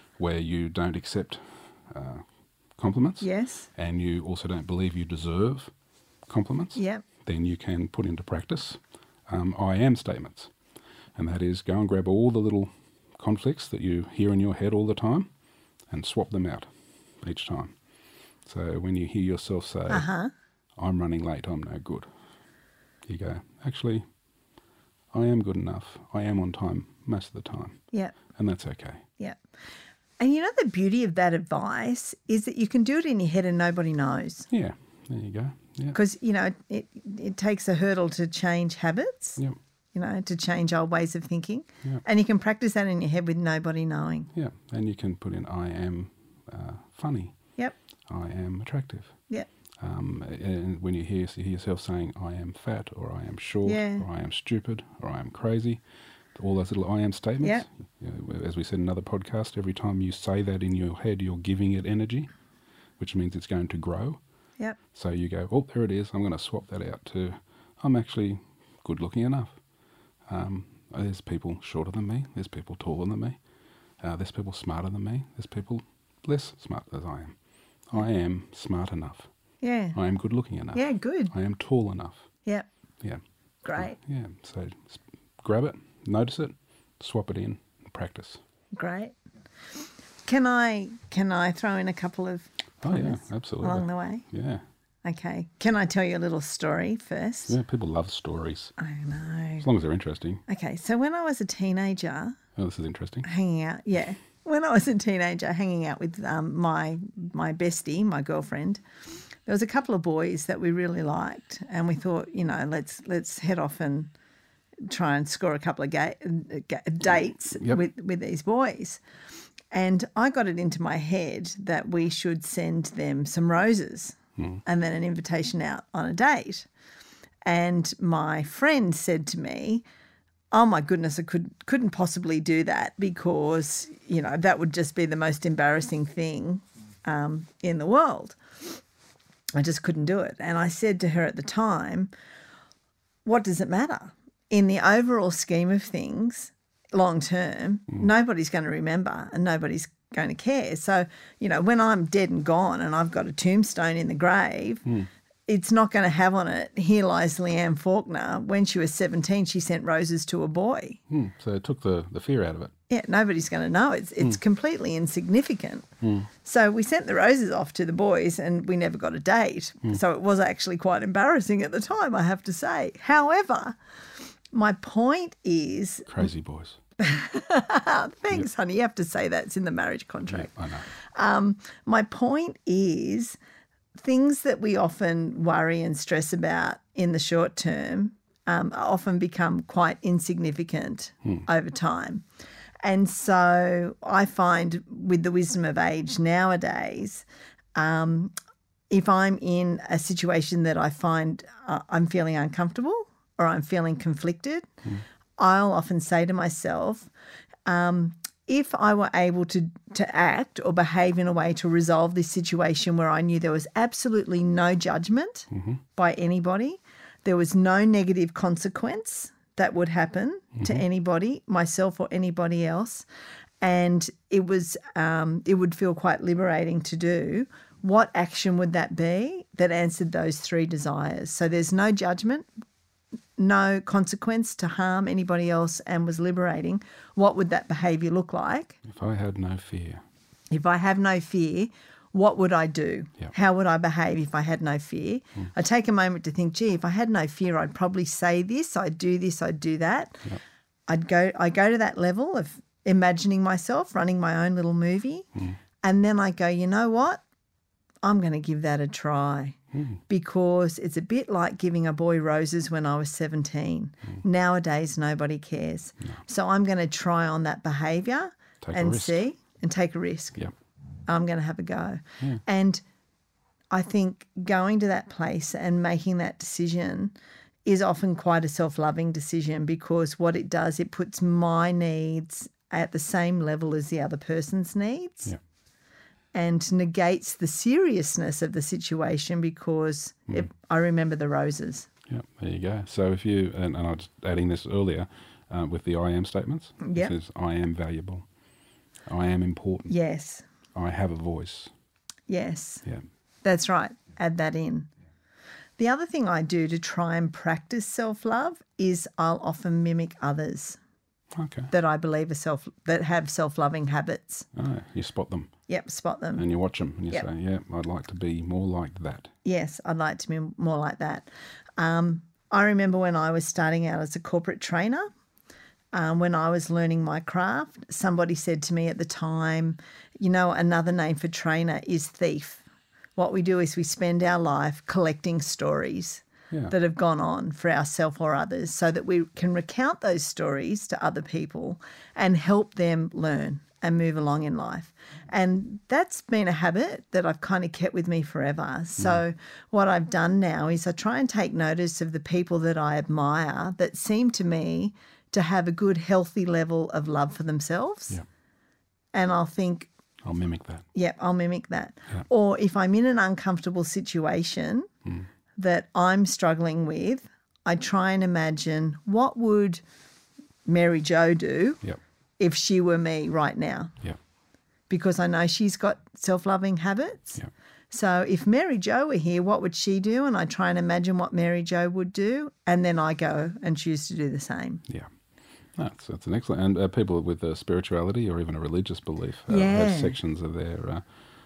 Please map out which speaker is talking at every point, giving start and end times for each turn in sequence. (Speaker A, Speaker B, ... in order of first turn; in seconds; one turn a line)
Speaker A: 0.2-2.2
Speaker A: 2.8-5.7
Speaker B: 3.2-3.7
Speaker A: 6.3-10.5
Speaker B: 6.8-7.0
Speaker A: 11.2-15.3
Speaker A: 15.9-16.7
Speaker A: 17.2-17.8
Speaker A: 18.4-20.1
Speaker B: 19.9-20.3
Speaker A: 20.8-22.1
Speaker A: 23.1-24.1
Speaker A: 25.1-29.0
Speaker B: 30.2-34.5
Speaker A: 34.5-36.0
Speaker B: 35.9-39.4
Speaker B: 39.9-44.3
Speaker A: 44.3-47.4
Speaker A: 48.1-49.2
Speaker A: 49.8-55.8
Speaker B: 53.7-54.0
Speaker A: 56.4-62.3
Speaker A: 63.0-64.2
Speaker A: 64.9-69.6
Speaker A: 70.3-73.4
Speaker A: 74.0-77.4
Speaker A: 77.9-79.3
Speaker B: 79.6-80.0
Speaker A: 80.0-82.3
Speaker B: 80.7-81.3
Speaker B: 83.6-84.0
Speaker A: 83.8-88.4
Speaker B: 88.7-89.2
Speaker B: 89.8-94.2
Speaker A: 92.8-94.6
Speaker B: 95.0-97.5
Speaker A: 97.5-98.7
Speaker B: 98.8-99.7
Speaker A: 99.6-100.4
Speaker B: 100.5-102.4
Speaker A: 102.6-103.3
Speaker B: 103.2-108.8
Speaker B: 109.5-114.1
Speaker B: 114.9-119.0
Speaker B: 119.7-126.7
Speaker B: 127.5-129.8
Speaker B: 130.5-138.8
Speaker B: 139.5-142.1
Speaker B: 143.2-154.9
Speaker B: 155.5-161.0
Speaker A: 161.1-162.7
Speaker B: 162.9-165.9
Speaker A: 166.0-166.3
Speaker B: 166.4-173.8
Speaker B: 174.5-176.3
Speaker A: 176.1-176.8
Speaker B: 177.0-183.4
Speaker A: 180.3-180.9
Speaker B: 184.0-192.2
Speaker B: 192.8-197.2
Speaker B: 197.8-198.3
Speaker B: 198.9-204.7
Speaker B: 205.4-207.1
Speaker B: 207.7-223.1
Speaker A: 215.5-215.8
Speaker A: 220.6-220.8
Speaker B: 223.6-232.5
Speaker B: 233.4-238.8
Speaker A: 238.8-240.0
Speaker B: 240.5-250.3
Speaker B: 250.9-255.3
Speaker B: 255.8-257.2
Speaker B: 258.0-270.4
Speaker A: 259.7-260.0
Speaker A: 268.6-269.2
Speaker B: 271.1-272.8
Speaker B: 273.7-277.1
Speaker B: 277.7-285.3
Speaker B: 286.3-291.9
Speaker A: 292.1-298.3
Speaker B: 296.8-297.1
Speaker A: 299.1-299.9
Speaker B: 299.9-300.5
Speaker A: 300.7-301.7
Speaker B: 302.3-302.9
Speaker B: 303.4-304.9
Speaker B: 305.8-310.8
Speaker A: 311.3-311.7
Speaker B: 311.7-314.5
Speaker A: 314.5-315.5
Speaker B: 315.7-316.4
Speaker A: 316.4-319.3
Speaker B: 319.4-325.1
Speaker B: 325.9-332.6
Speaker B: 333.2-358.2
Speaker A: 349.0-349.2
Speaker B: 359.1-359.9
Speaker A: 360.2-360.9
Speaker B: 360.9-364.9
Speaker B: 365.6-369.8
Speaker B: 370.7-371.8
Speaker B: 372.4-373.9
Speaker B: 374.9-377.4
Speaker B: 377.9-384.8
Speaker A: 385.8-391.0
Speaker B: 389.5-390.1